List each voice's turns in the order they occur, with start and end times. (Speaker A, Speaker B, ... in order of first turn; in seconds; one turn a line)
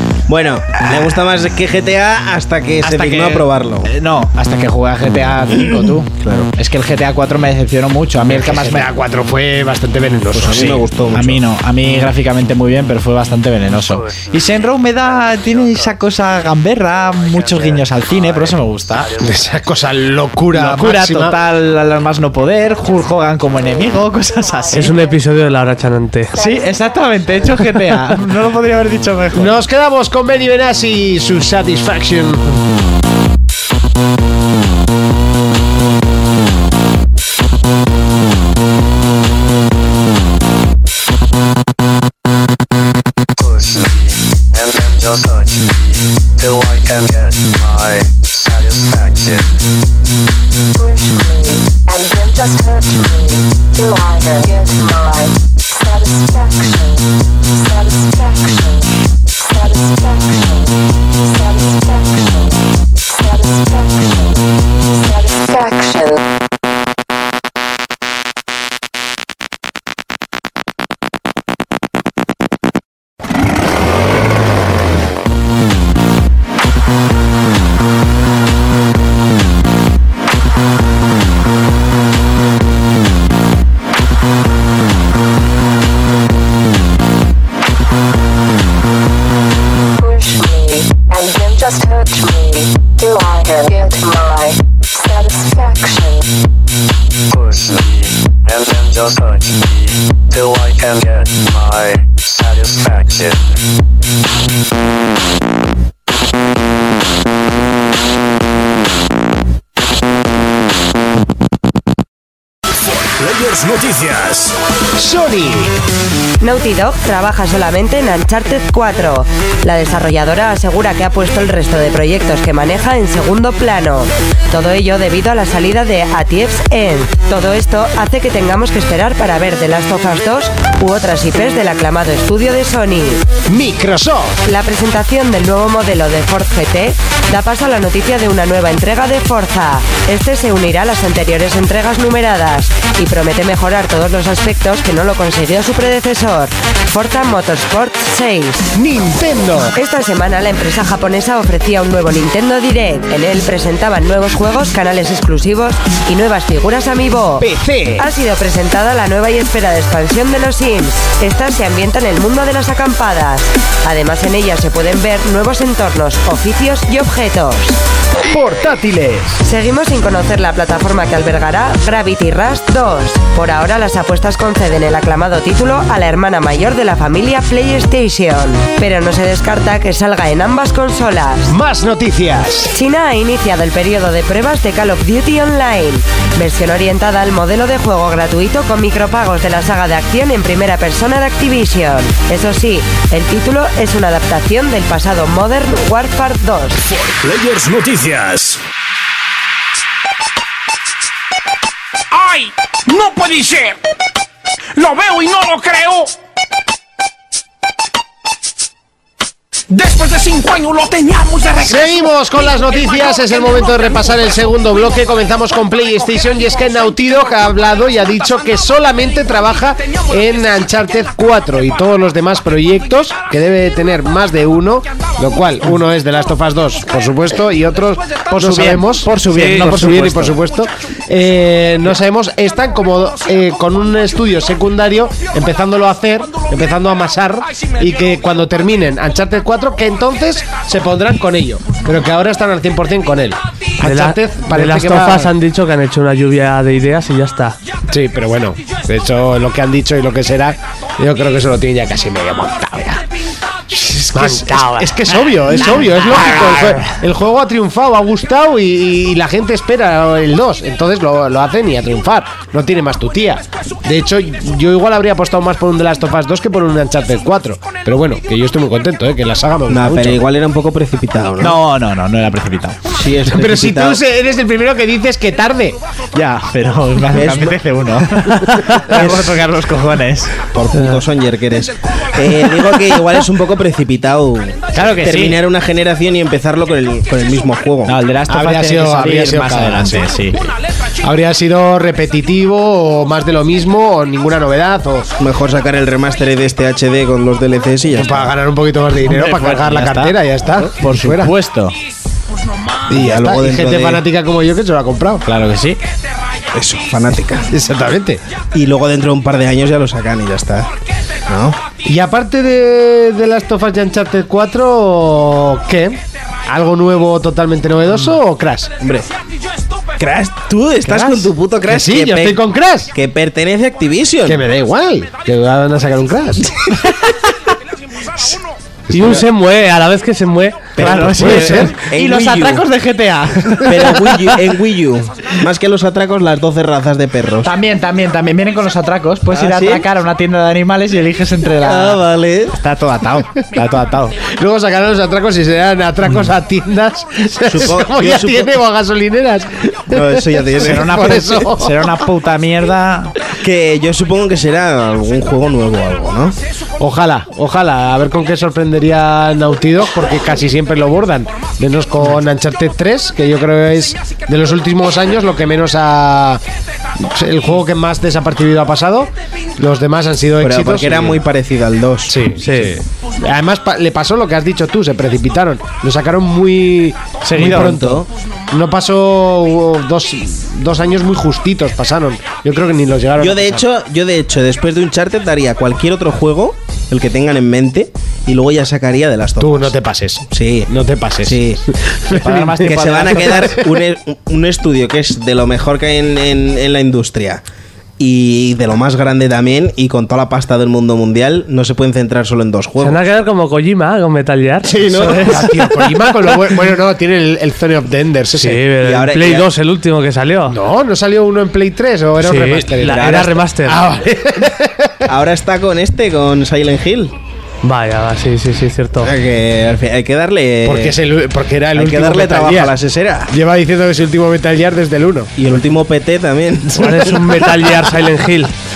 Speaker A: 0.3-3.9
Speaker B: 2.8-8.9
Speaker A: 6.2-6.5
Speaker C: 8.3-10.8
Speaker A: 10.3-11.4
Speaker B: 10.5-19.1
Speaker D: 13.8-19.7
Speaker C: 19.2-21.4
Speaker B: 20.5-25.0
Speaker E: 24.4-25.5
Speaker F: 24.7-26.4
Speaker E: 26.3-27.3
Speaker B: 26.3-29.6
Speaker C: 29.3-32.4
Speaker D: 43.4-49.5
Speaker E: 50.7-66.2
Speaker E: 90.0-96.3
Speaker D: 97.3-103.6
Speaker G: 113.2-114.6
Speaker C: 115.0-115.7
Speaker H: 116.4-133.3
Speaker C: 133.5-134.4
Speaker H: 134.4-148.7
Speaker C: 148.8-149.7
Speaker H: 149.8-157.5
Speaker C: 157.4-158.1
Speaker H: 158.0-167.8
Speaker C: 168.3-169.4
Speaker H: 169.4-181.5
Speaker C: 181.4-182.7
Speaker H: 182.7-196.8
Speaker G: 196.9-198.6
Speaker I: 202.1-203.8
Speaker I: 204.8-206.1
Speaker I: 209.7-212.0
Speaker C: 211.6-245.3
Speaker B: 228.3-230.4
Speaker F: 229.3-229.8
Speaker F: 243.8-247.6
Speaker C: 247.9-253.0
Speaker C: 253.7-270.2
Speaker F: 254.1-255.0
Speaker A: 269.7-271.6
Speaker B: 271.4-272.8
Speaker A: 272.9-274.0
Speaker C: 273.3-275.8
Speaker B: 276.1-280.4
Speaker A: 277.1-277.6
Speaker A: 278.9-279.4
Speaker A: 280.5-288.0
Speaker B: 284.7-285.4
Speaker B: 287.9-290.4
Speaker C: 288.3-290.3
Speaker C: 291.0-295.1
Speaker A: 295.2-298.3
Speaker C: 297.9-301.3
Speaker B: 299.1-301.8
Speaker C: 302.9-305.2
Speaker A: 302.9-304.0
Speaker B: 305.2-305.8
Speaker A: 306.5-307.5
Speaker C: 307.5-308.2
Speaker A: 308.5-310.7
Speaker A: 311.3-311.6
Speaker C: 311.8-318.7
Speaker A: 318.8-319.1
Speaker A: 320.0-322.4
Speaker B: 320.9-321.1
Speaker C: 321.7-322.9
Speaker A: 322.9-324.4
Speaker C: 324.2-326.5
Speaker C: 328.9-329.2
Speaker F: 328.9-330.7
Speaker A: 330.8-332.7
Speaker B: 330.8-334.4
Speaker C: 331.2-331.7
Speaker A: 333.6-337.5
Speaker B: 337.4-344.2
Speaker A: 339.3-339.9
Speaker A: 341.6-342.6
Speaker C: 344.2-351.9
Speaker A: 347.4-348.6
Speaker A: 349.9-351.3
Speaker B: 350.6-353.1
Speaker A: 353.4-356.4
Speaker C: 356.8-366.4
Speaker C: 366.9-371.2
Speaker A: 370.4-372.2
Speaker C: 372.1-383.7
Speaker F: 372.4-372.8
Speaker B: 377.2-377.8
Speaker A: 377.4-378.1
Speaker A: 383.2-389.7
Speaker C: 389.4-393.4
Speaker A: 390.3-390.7
Speaker A: 391.2-391.6
Speaker B: 392.1-393.6
Speaker A: 392.5-397.4
Speaker A: 398.0-403.0
Speaker F: 402.8-405.7
Speaker A: 404.7-405.4
Speaker C: 404.8-408.6
Speaker F: 408.4-410.6
Speaker A: 408.8-409.5
Speaker C: 410.5-415.1
Speaker F: 412.2-413.8
Speaker A: 412.9-413.3
Speaker A: 415.1-417.1
Speaker F: 417.6-419.1
Speaker A: 419.0-420.9
Speaker C: 420.6-422.8
Speaker A: 421.8-423.3
Speaker C: 423.3-425.3
Speaker A: 425.4-427.5
Speaker F: 426.7-428.5